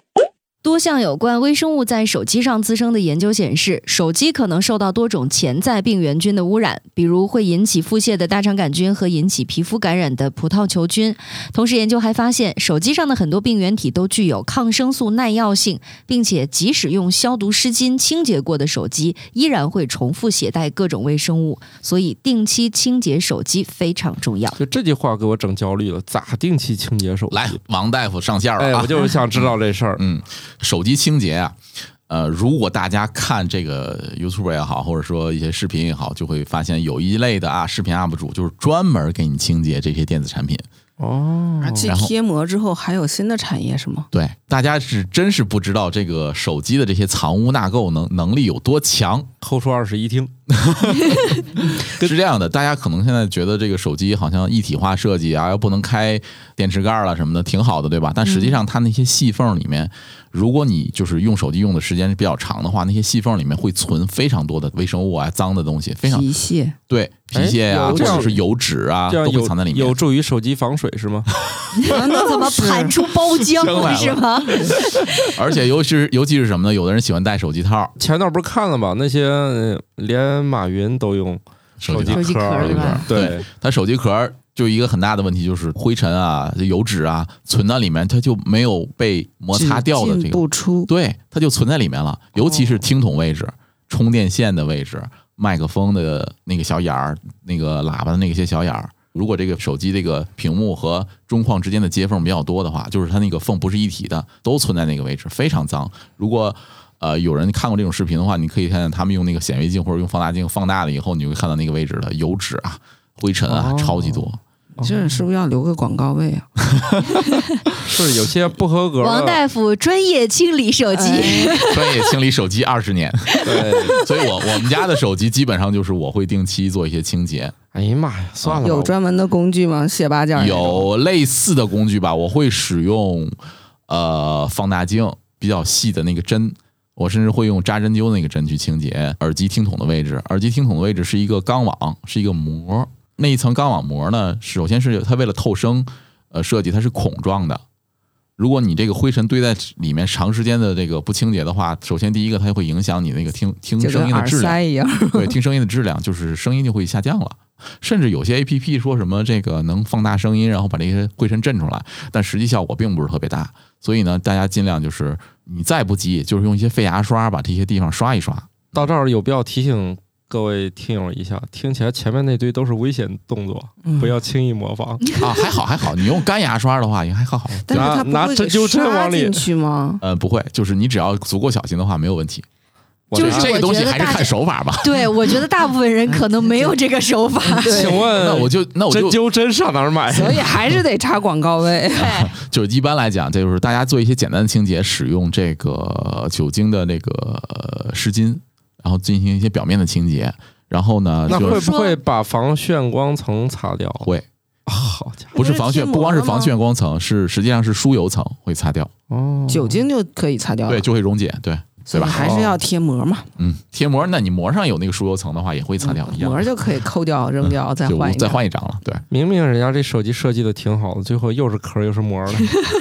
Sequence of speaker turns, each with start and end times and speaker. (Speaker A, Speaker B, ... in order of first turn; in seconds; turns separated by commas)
Speaker A: 0.6-24.6, Speaker B: 24.6-27.6, Speaker C: 27.3-40.6, Speaker B: 28.6-30.0, Speaker B: 41.0-41.9, Speaker D: 41.6-44.1, Speaker C: 41.9-42.1, Speaker C: 44.1-49.3, Speaker B: 49.4-50.3, Speaker C: 50.5-66.3, Speaker A: 58.3-58.5, Speaker D: 66.1-66.8, Speaker C: 66.9-70.0, Speaker B: 67.3-68.4, Speaker D: 67.8-68.3, Speaker B: 69.1-71.3, Speaker C: 71.4-71.9, Speaker A: 71.8-75.3, Speaker D: 71.9-72.9, Speaker C: 73.4-77.9, Speaker B: 78.0-83.4, Speaker C: 81.8-114.4, Speaker A: 82.1-83.1, Speaker D: 89.5-90.9, Speaker B: 113.5-115.2, Speaker D: 114.8-116.5, Speaker C: 116.7-117.2, Speaker B: 117.8-119.4, Speaker A: 119.0-122.0, Speaker D: 120.9-121.8, Speaker C: 121.6-127.5, Speaker A: 123.3-124.1, Speaker B: 123.4-124.0, Speaker B: 127.7-128.9, Speaker D: 128.6-130.9, Speaker C: 130.3-147.6, Speaker C: 148.4-154.6, Speaker D: 153.8-155.3, Speaker C: 155.1-168.9, Speaker B: 168.7-175.0, Speaker D: 173.8-174.1, Speaker A: 175.1-175.4, Speaker C: 175.2-177.9, Speaker D: 177.7-180.0, Speaker B: 177.7-179.4, Speaker C: 180.0-182.4, Speaker B: 183.1-183.6, Speaker A: 183.1-188.0, Speaker C: 183.2-185.1, Speaker D: 186.1-186.8, Speaker D: 187.4-188.1, Speaker B: 187.7-190.5, Speaker C: 188.1-189.2, Speaker D: 190.1-192.3, Speaker C: 191.9-201.7, Speaker A: 201.3-202.0, Speaker B: 201.3-204.1, Speaker B: 204.7-205.4, Speaker D: 205.3-206.5, Speaker C: 205.3-208.9, Speaker B: 209.1-209.8, Speaker D: 209.5-210.8, Speaker C: 210.7-212.3, Speaker D: 211.9-213.3, Speaker B: 212.1-212.6, Speaker C: 213.4-216.5, Speaker D: 215.8-218.4, Speaker C: 217.4-219.0, Speaker B: 219.1-222.5